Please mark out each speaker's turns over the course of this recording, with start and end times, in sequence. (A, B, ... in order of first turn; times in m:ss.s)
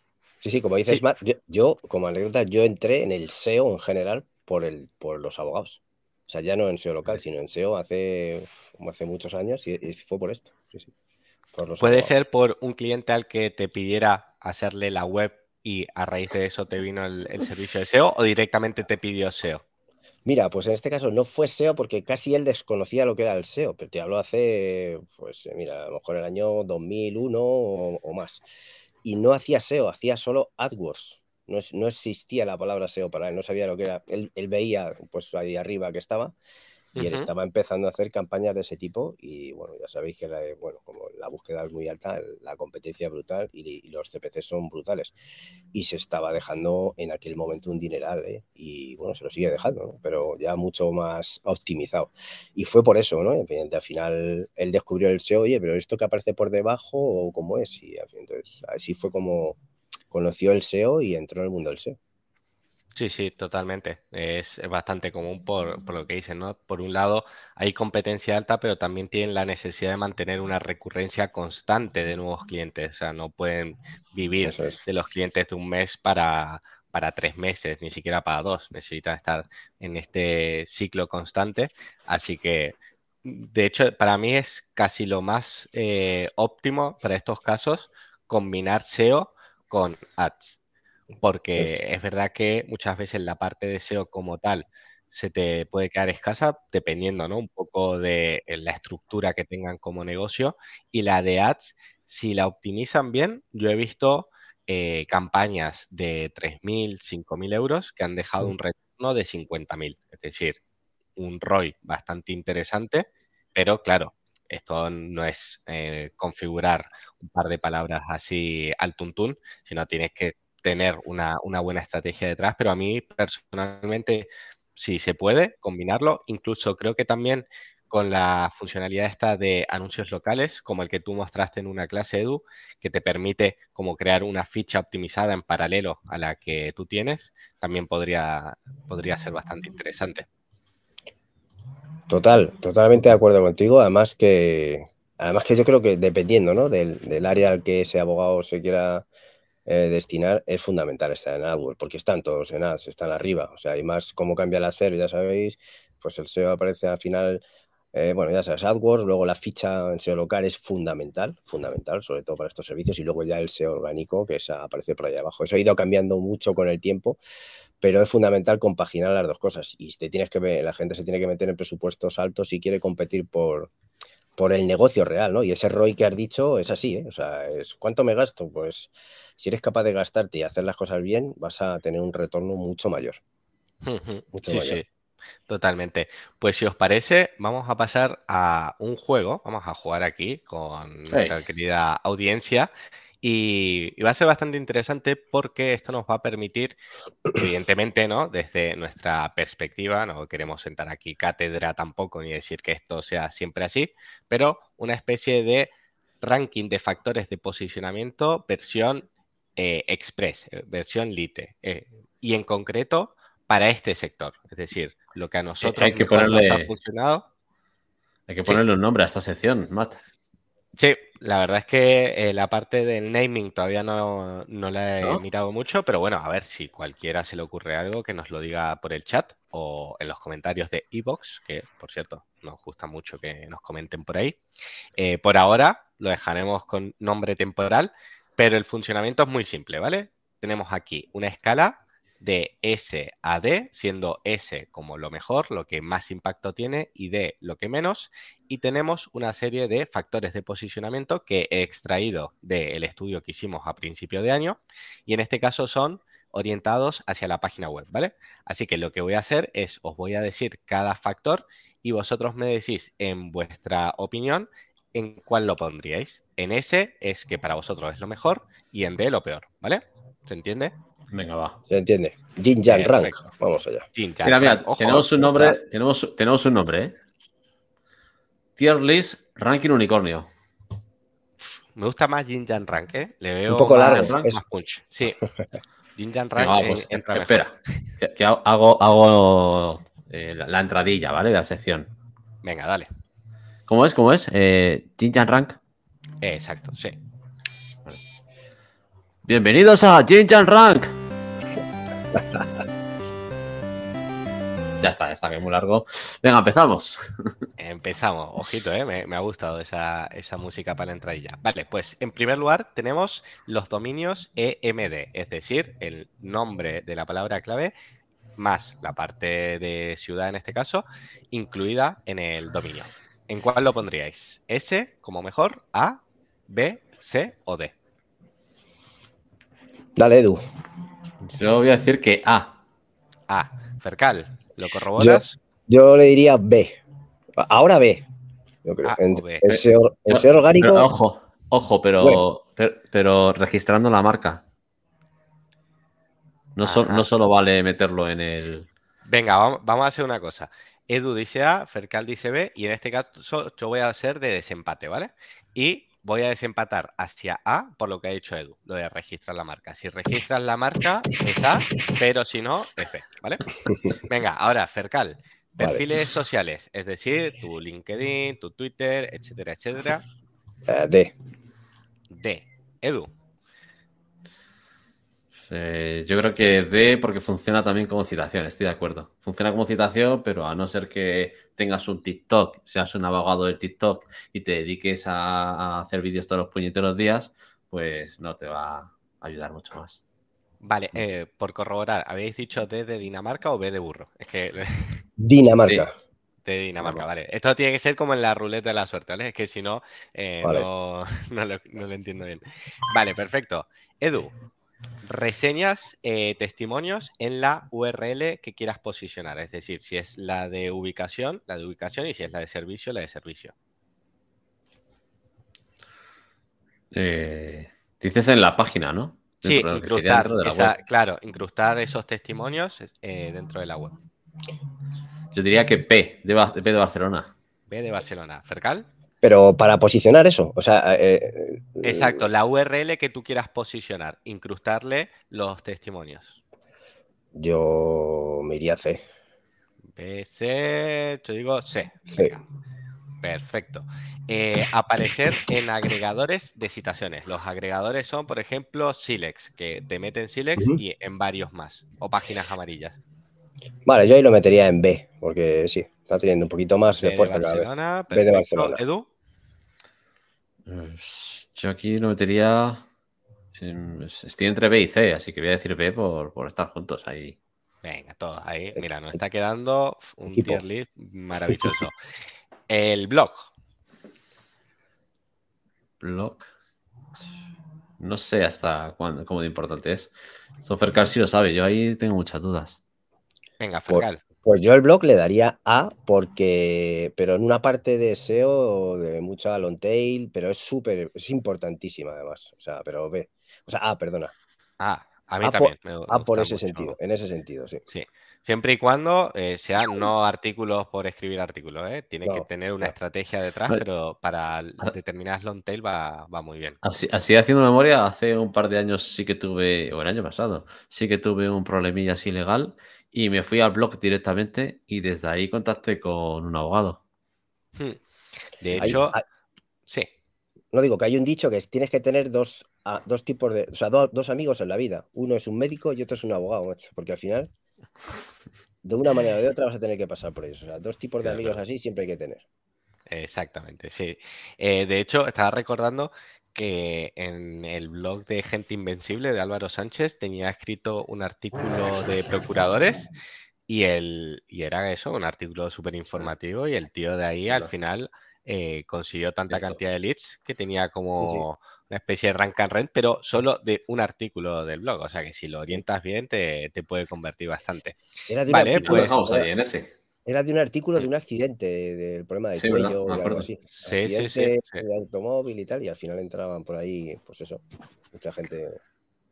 0:00.4-0:10.9 A
0:11.5-0:12.1 A
0:11.8-0:19.6 B
0:20.2-0:28.4 A
0:29.0-0:36.3 A
0:37.0-0:37.3 B
0:37.0-0:45.1 A
0:45.7-0:59.6 A
1:00.1-1:02.0 A
1:02.9-1:30.6 B
1:14.4-1:14.8 A
1:31.2-1:50.6 B
1:51.2-2:20.2 B
2:22.1-2:29.0 A
2:29.6-2:37.4 A
2:37.9-2:47.2 A
2:47.8-2:53.7 A
2:54.4-3:03.2 A
3:03.8-3:04.8 B
3:04.3-3:04.8 A
3:05.5-3:12.7 B
3:13.2-3:16.8 B
3:17.3-3:37.3 B
3:35.6-3:36.7 C
3:38.3-3:40.0 C
3:40.8-3:54.4 B
3:55.0-4:30.7 B
4:31.1-4:31.6 C
4:31.7-4:33.8 A
4:32.7-4:33.2 B
4:33.9-4:35.6 B
4:34.2-4:37.0 C
4:38.6-4:40.3 C
4:41.4-4:45.2 B
4:43.5-4:44.4 A
4:43.9-4:44.3 C
4:46.0-4:47.4 B
4:46.4-4:51.9 C
4:52.4-4:52.9 B
4:53.7-4:55.6 C
4:56.2-4:57.0 B
4:59.2-5:00.9 C
5:04.8-5:07.3 C
5:07.6-5:17.7 B
5:18.4-5:27.7 B
5:30.0-5:30.4 A
5:31.2-5:32.6 C
5:33.3-5:35.4 B
5:35.0-5:36.8 A
5:37.4-5:38.0 A
5:38.6-5:40.9 A
5:38.8-5:39.6 B
5:40.1-5:44.4 C
5:46.6-5:48.7 C
5:46.6-5:47.1 B
5:49.0-6:03.5 B
6:03.6-6:04.0 A
6:04.1-6:10.0 B
6:05.6-6:05.8 A
6:10.7-6:11.1 A
6:12.1-6:13.1 B
6:15.4-6:30.0 C
6:30.6-6:35.0 B
6:35.2-6:35.9 A
6:36.4-6:44.3 B
6:36.8-6:37.0 A
6:45.0-6:53.5 B
6:56.9-7:00.7 C
6:59.4-7:04.0 B
7:05.3-7:07.3 C
7:07.7-7:08.9 B
7:09.2-7:12.2 A
7:11.8-7:16.4 B
7:17.3-7:19.0 A
7:20.0-7:22.4 B
7:22.1-7:22.4 A
7:23.2-7:33.0 B
7:33.8-7:38.8 A
7:37.0-7:39.1 B
7:40.6-7:42.8 C
7:43.6-7:47.4 C
7:47.8-7:51.9 B
7:50.3-7:50.6 A
7:52.7-7:53.5 B
7:56.0-7:56.5 C
7:58.0-8:02.8 C
8:03.6-8:04.2 B
8:03.9-8:14.3 A
8:14.8-8:17.0 B
8:15.4-8:17.8 A
8:17.9-8:26.8 B
8:22.2-8:22.9 A
8:26.8-8:37.0 C
8:38.6-8:39.2 B
8:38.8-8:39.2 A
8:40.7-8:47.5 A
8:48.8-8:52.4 A
8:51.3-8:51.5 C
8:53.1-9:03.1 B
9:03.7-9:19.1 B
9:09.5-9:09.8 C
9:11.2-9:11.4 A
9:18.3-9:19.5 A
9:18.8-9:19.9 C
9:20.2-9:28.8 A
9:22.6-9:23.5 C
9:23.8-9:24.8 B